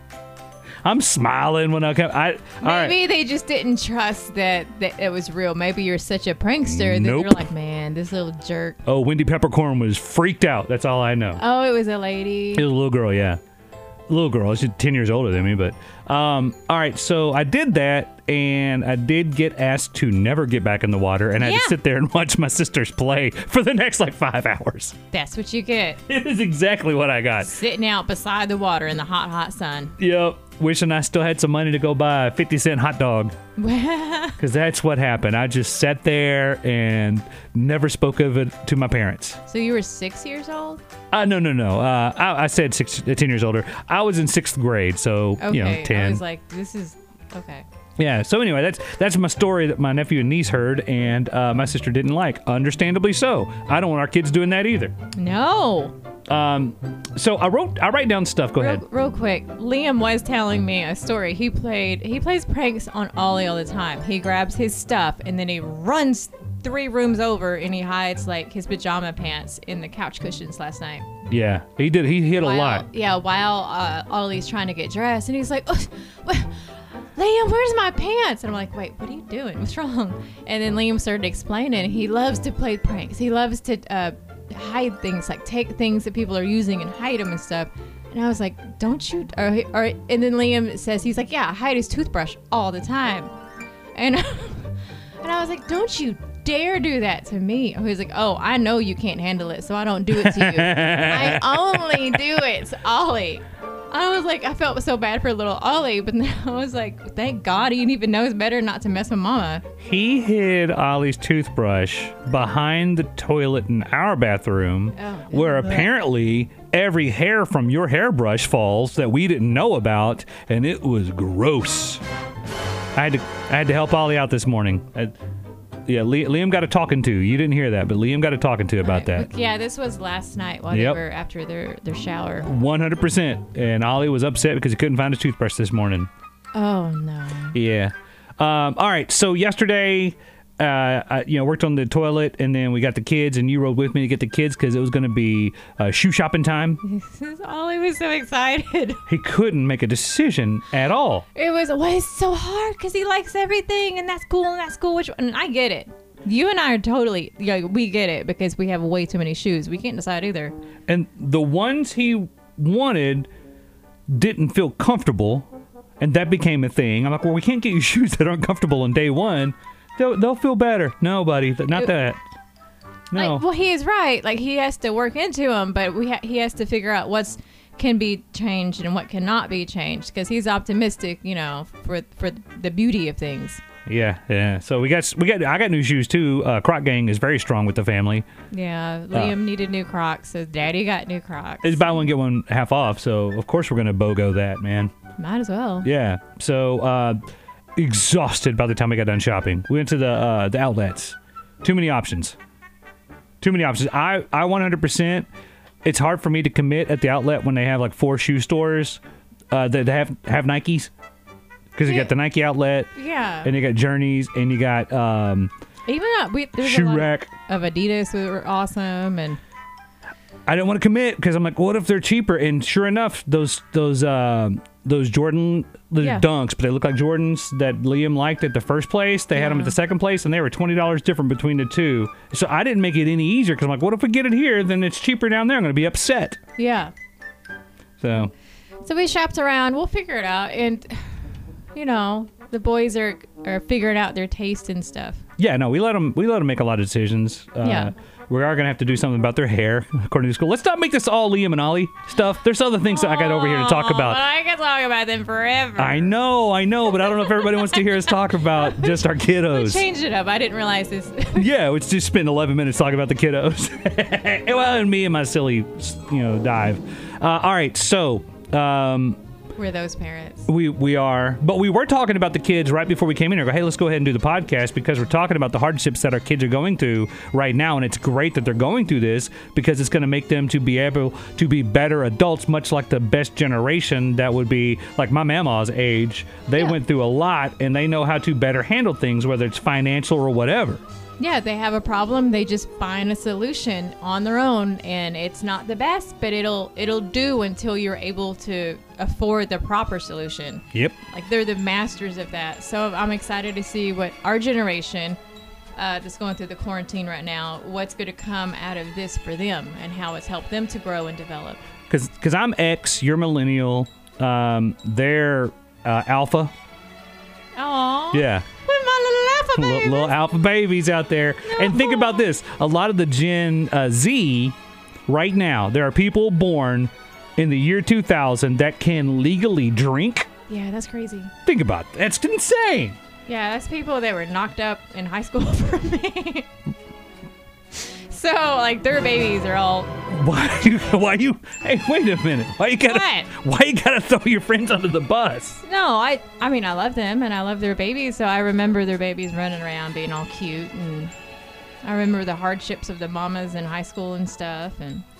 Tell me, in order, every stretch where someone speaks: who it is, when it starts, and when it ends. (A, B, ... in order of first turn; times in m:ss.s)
0:00.8-0:03.0 A
0:02.6-0:08.8 B
0:06.7-0:07.4 A
0:08.9-0:11.4 A
0:11.4-0:12.7 B
0:12.5-0:13.4 A
0:14.1-0:25.0 A
0:21.4-0:21.8 B
0:25.1-0:26.0 B
0:26.1-0:27.5 A
0:27.4-0:29.9 B
0:30.0-0:33.4 A
0:33.6-0:34.4 B
0:34.4-0:39.4 A
0:39.5-0:40.8 B
0:41.1-0:46.2 A
0:45.4-0:47.6 B
0:48.0-0:54.9 A
0:55.2-0:56.0 B
0:56.3-0:58.8 A
0:58.6-1:11.1 B
1:11.3-1:12.9 A
1:12.4-1:33.3 B
1:34.0-1:49.6 B
1:40.1-1:42.2 A
1:49.8-2:02.0 A
1:55.0-1:55.9 B
2:03.0-2:05.2 A
2:05.9-2:09.3 A
2:08.8-2:12.5 B
2:10.7-2:11.0 A
2:12.5-2:16.1 A
2:16.5-2:17.6 B
2:17.5-2:26.8 A
2:26.8-2:29.0 B
2:29.1-2:31.2 A
2:31.3-2:40.5 B
2:40.9-2:43.3 A
2:44.1-2:45.5 A
2:46.0-2:52.2 A
2:53.1-2:53.4 A
2:53.2-3:03.6 B
3:03.9-3:08.3 A
3:08.5-3:12.0 B
3:11.6-3:14.9 A
3:15.2-3:15.9 B
3:15.8-3:17.2 A
3:17.8-3:22.4 A
3:23.4-3:25.3 A
3:25.8-3:29.0 A
3:29.5-3:30.9 A
3:31.8-3:32.9 A
3:31.9-3:32.1 B
3:33.0-3:33.5 B
3:33.4-3:35.5 A
3:35.9-3:39.4 B
3:36.6-3:37.3 A
3:40.5-3:56.4 A
3:46.0-3:46.3 B
3:49.3-3:49.8 B
3:56.6-3:56.9 B
3:58.0-3:58.3 A
3:58.8-4:01.0 B
4:01.7-4:05.2 B
4:05.4-4:14.2 A
4:07.6-4:07.9 B
4:12.9-4:16.1 B
4:15.8-4:19.8 A
4:17.0-4:21.5 B
4:21.4-4:29.2 A
4:29.6-4:30.5 B
4:30.5-4:50.8 A
4:51.2-5:05.2 B
5:05.8-5:11.6 B
5:11.9-5:16.5 A
5:17.6-5:20.2 B
5:18.1-5:18.5 A
5:19.6-5:24.6 A
5:21.5-5:22.3 B
5:25.1-5:30.3 A
5:30.5-5:31.3 B
5:31.5-5:33.0 A
5:33.3-5:36.5 B
5:37.7-5:39.9 B
5:40.1-5:45.6 A
5:42.8-5:43.3 B
5:45.6-5:51.1 B
5:51.8-5:55.0 B